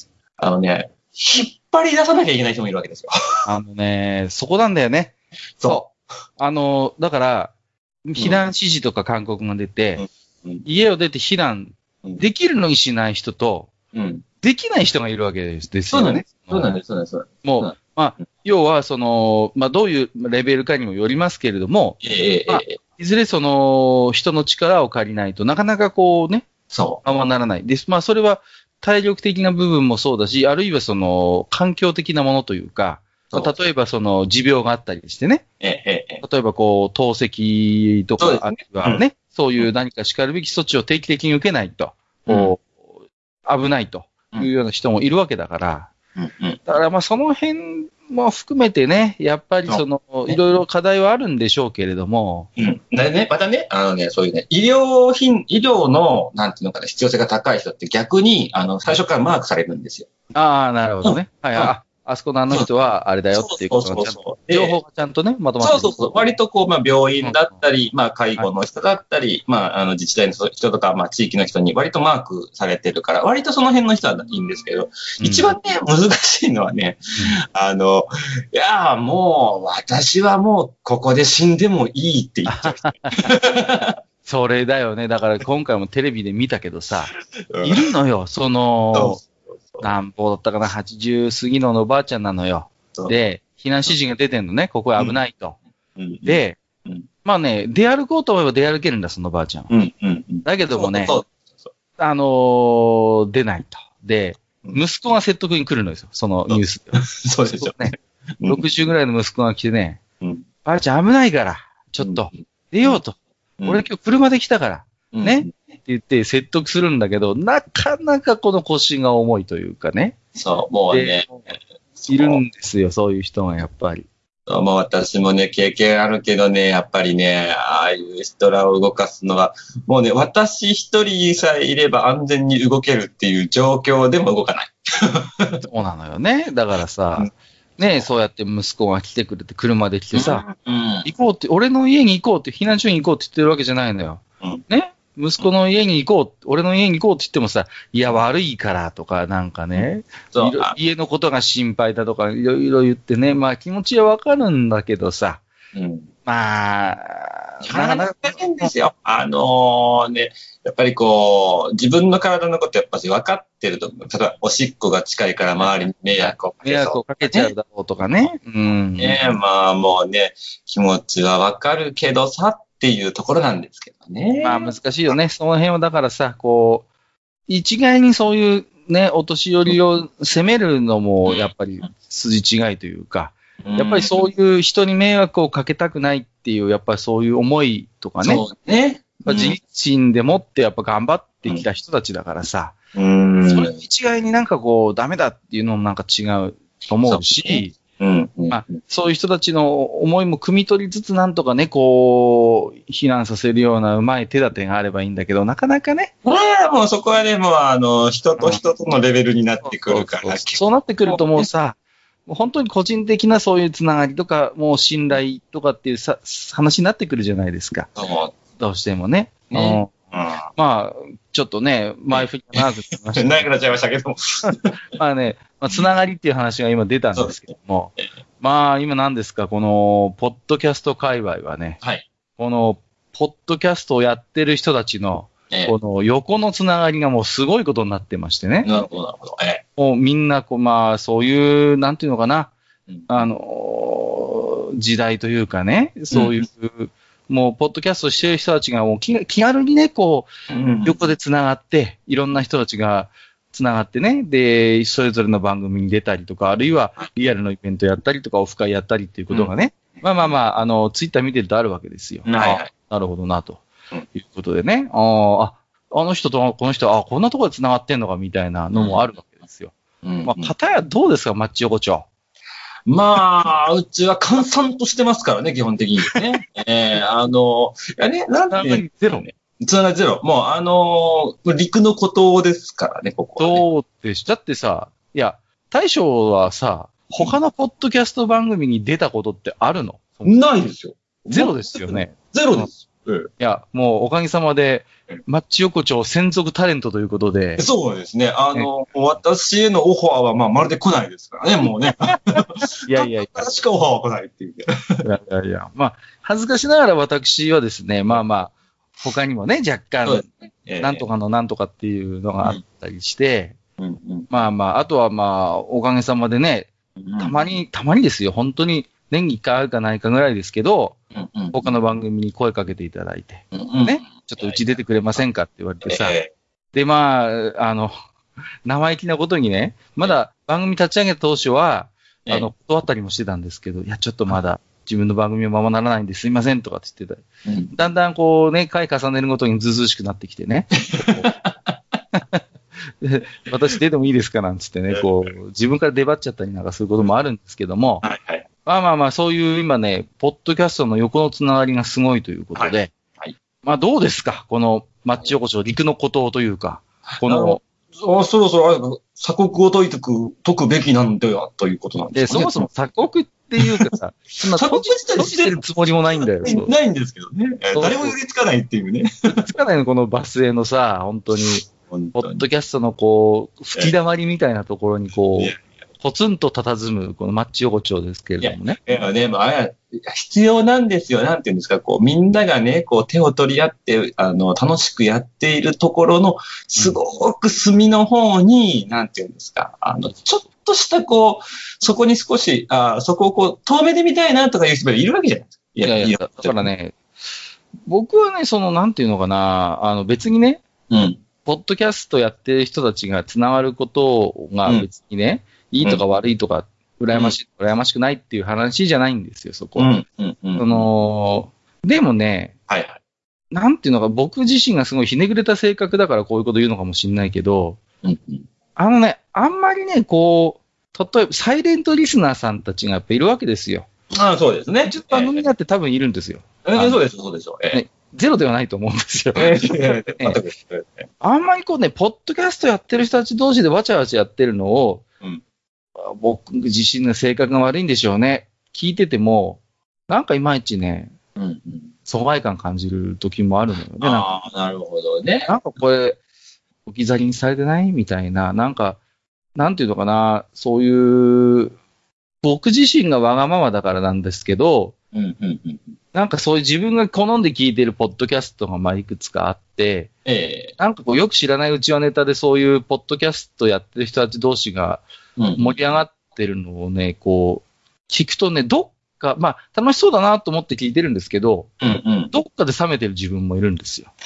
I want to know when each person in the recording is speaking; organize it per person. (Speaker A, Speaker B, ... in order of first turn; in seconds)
Speaker A: 0.4-3.1, 5.6-5.9, 10.0-10.6, 13.9-14.2, 15.9-17.7, 22.0-22.8, 26.7-27.0, 33.3-33.5, 35.6-36.2, 38.2-39.0, 42.3-42.5, 46.2-46.6, 49.7-50.4, 52.6-60.1, 61.0-61.7, 63.3-64.8, 65.6-77.0, 77.5-83.9, 87.5-87.8, 88.9-89.9, 96.0-97.0, 99.7-101.7, 106.5-107.9, 112.0-113.0, 113.6-113.8, 115.1-115.5, 120.3-122.4, 124.5-135.6, 140.1-141.1, 149.7-150.7, 155.7-156.1, 157.6-167.5, 169.0-174.7, 183.6-184.3, 188.2-189.6, 192.9-193.7, 197.1-198.7, 206.2-211.5, 217.9-218.3, 219.5-220.4, 222.1-222.6, 223.1-224.7, 227.1-227.4, 231.8-232.1, 238.6-239.6, 246.1-246.4, 250.5-251.0, 262.2-262.7, 268.7-269.1, 270.0-270.5, 272.9-283.6, 290.2-293.3, 297.6-305.0, 310.0-311.0, 313.8-314.3, 317.0-317.4, 321.1-321.7, 323.5-324.7, 325.8-326.3, 337.4-337.7, 340.9-341.8, 348.0-348.4, 352.6-353.3, 357.2-362.7, 363.6-363.9, 364.5-369.5, 371.6-372.4, 378.4-396.6, 400.9-401.2, 409.8-410.9, 412.7-413.0, 418.0-418.4, 424.1-425.4, 426.6-427.8, 429.4-431.1, 441.4-441.9, 444.0-445.5, 455.1-455.9, 460.2-460.7, 465.4-465.8, 471.8-472.3
Speaker B: 3.5-7.5, 8.1-10.0, 10.6-13.7, 14.4-16.7, 17.4-26.5, 27.0-35.4, 36.2-42.7, 43.5-45.9, 46.7-52.5, 60.3-65.9, 67.2-67.5, 75.2-75.5, 82.5-83.4, 84.2-89.2, 89.8-95.6, 96.2-96.6, 97.2-99.7, 100.4-101.1, 102.0-110.0, 110.6-120.2, 120.9-121.5, 122.1-124.1, 135.6-140.4, 141.0-155.4, 156.2-158.7, 166.3-169.4, 174.4-176.9, 177.5-188.4, 189.2-192.8, 193.4-197.8, 198.5-206.1, 209.6-217.9, 218.6-219.9, 220.5-223.5, 224.5-231.8, 232.4-238.7, 239.8-242.5, 243.1-250.3, 250.8-272.1, 278.5-279.2, 283.4-290.4, 291.3-292.7, 293.4-297.6, 302.4-303.5, 305.0-310.3, 310.8-313.6, 314.3-321.0, 321.5-326.1, 326.7-328.0, 328.6-341.3, 342.1-342.4, 343.0-348.0, 348.6-352.9, 353.6-357.6, 362.1-366.7, 367.7-368.1, 369.4-378.8, 395.8-397.0, 397.9-400.6, 401.4-409.9, 410.6-412.5, 413.5-417.8, 418.8-423.9, 424.8-427.0, 427.7-430.4, 431.2-435.0, 436.0-441.1, 442.1-444.2, 445.4-446.2, 446.9-449.0, 449.6-451.7, 452.4-454.9, 456.1-460.1, 460.8-465.0, 465.6-471.7, 472.3-474.1